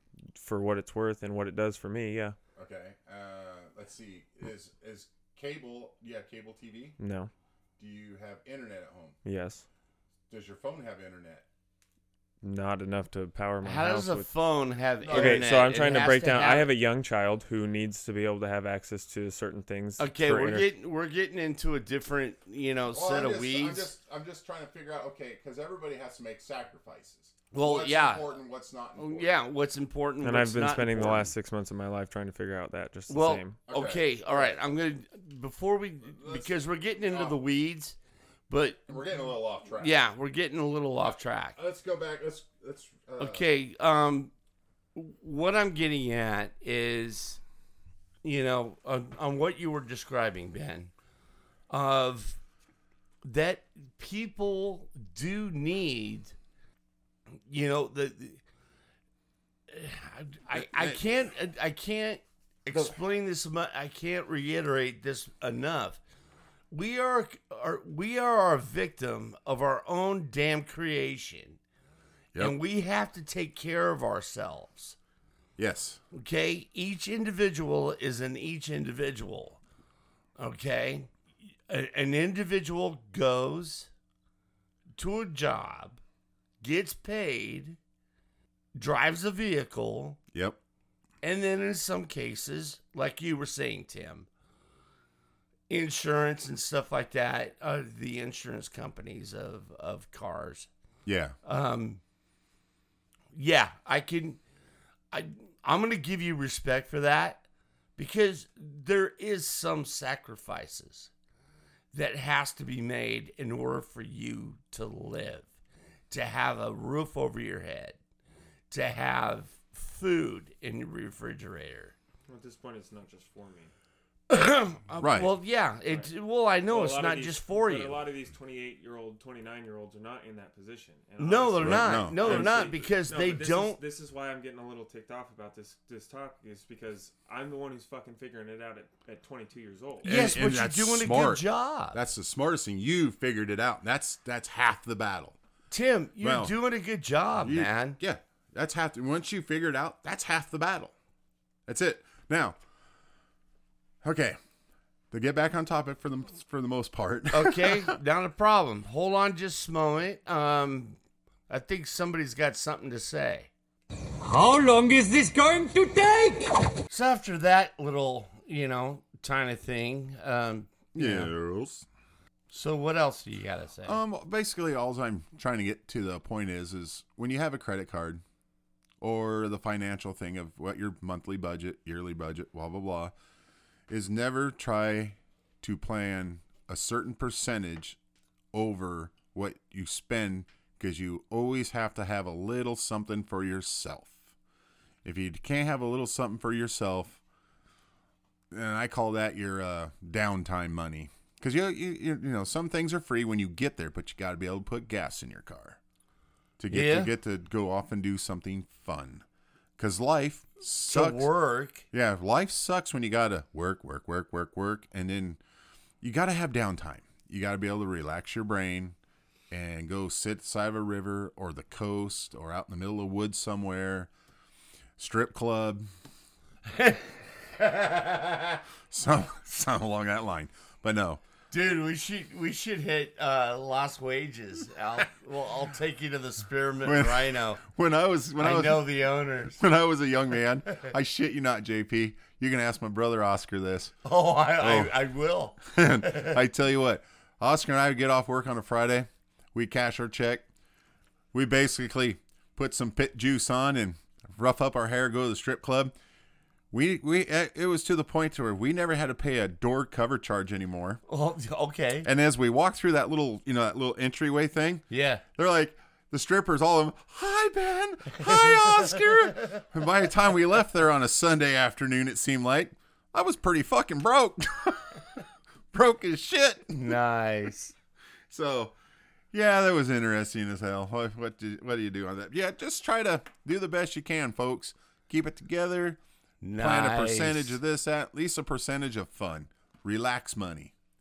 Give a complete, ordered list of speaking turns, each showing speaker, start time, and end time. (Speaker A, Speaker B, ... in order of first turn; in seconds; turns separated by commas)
Speaker A: 0.3-2.4, Speaker B: 2.5-7.0, Speaker A: 7.0-7.3, Speaker B: 7.8-9.2, Speaker A: 9.2-9.6, Speaker B: 10.3-11.4, Speaker A: 12.4-14.3, Speaker C: 13.6-16.7, Speaker B: 15.0-15.5, Speaker A: 15.1-20.7, Speaker C: 20.0-23.9, Speaker B: 22.9-29.4, Speaker C: 27.5-28.3, Speaker C: 29.0-31.3, Speaker A: 30.2-33.6, Speaker C: 33.1-38.0, Speaker B: 33.7-34.6, Speaker B: 36.1-37.4, Speaker C: 38.5-38.9, Speaker B: 38.9-40.0, Speaker C: 39.8-41.6, Speaker B: 41.0-43.5, Speaker C: 43.2-44.3, Speaker C: 44.9-47.4, Speaker C: 48.2-50.9, Speaker C: 51.7-52.4, Speaker C: 53.2-56.3, Speaker C: 57.5-58.4, Speaker C: 59.7-66.0, Speaker B: 60.5-61.0, Speaker C: 66.7-71.6, Speaker C: 72.3-75.0, Speaker B: 75.6-76.0, Speaker C: 76.1-79.6, Speaker C: 80.4-81.1, Speaker C: 81.7-83.9, Speaker C: 85.0-86.0, Speaker C: 86.6-87.8, Speaker C: 88.7-90.2, Speaker B: 90.3-90.6, Speaker C: 91.2-94.3, Speaker C: 95.7-100.7, Speaker B: 101.0-101.3, Speaker C: 101.4-102.0, Speaker C: 103.3-104.4, Speaker C: 105.1-107.4, Speaker C: 108.0-111.1, Speaker C: 111.9-115.5, Speaker C: 116.1-118.0, Speaker C: 118.7-121.9, Speaker D: 122.3-123.7, Speaker C: 124.3-128.0, Speaker B: 125.0-125.3, Speaker D: 126.7-140.1, Speaker C: 131.2-133.8, Speaker B: 131.6-132.7, Speaker B: 140.0-145.4, Speaker C: 140.0-142.0, Speaker C: 145.7-148.0, Speaker B: 146.2-146.5, Speaker B: 147.4-150.9, Speaker B: 151.7-152.6, Speaker B: 154.0-154.4, Speaker B: 155.1-157.9, Speaker C: 157.3-163.5, Speaker E: 164.2-166.7, Speaker C: 166.9-171.3, Speaker B: 170.9-171.8, Speaker C: 172.5-174.0, Speaker B: 173.8-178.2, Speaker B: 179.0-183.1, Speaker B: 183.9-188.0, Speaker B: 188.5-194.2, Speaker B: 195.0-197.2, Speaker B: 198.5-205.8, Speaker B: 206.6-209.2, Speaker C: 206.7-207.1, Speaker B: 209.8-211.3, Speaker C: 210.8-211.8, Speaker B: 211.9-215.4, Speaker B: 216.0-218.9, Speaker B: 219.5-224.1, Speaker B: 225.0-225.9, Speaker C: 226.7-228.6, Speaker B: 228.9-231.2, Speaker C: 231.5-237.6, Speaker B: 236.8-239.0, Speaker C: 238.4-239.6, Speaker B: 239.6-243.9, Speaker C: 244.0-246.4, Speaker B: 244.6-245.0, Speaker B: 245.6-250.4, Speaker B: 251.3-255.9, Speaker B: 256.7-261.0, Speaker C: 261.1-262.1, Speaker B: 262.0-275.1, Speaker C: 264.9-265.2, Speaker B: 275.7-277.0, Speaker C: 276.7-277.7, Speaker B: 278.3-278.7, Speaker B: 279.3-286.0, Speaker C: 286.4-287.6, Speaker B: 286.6-290.7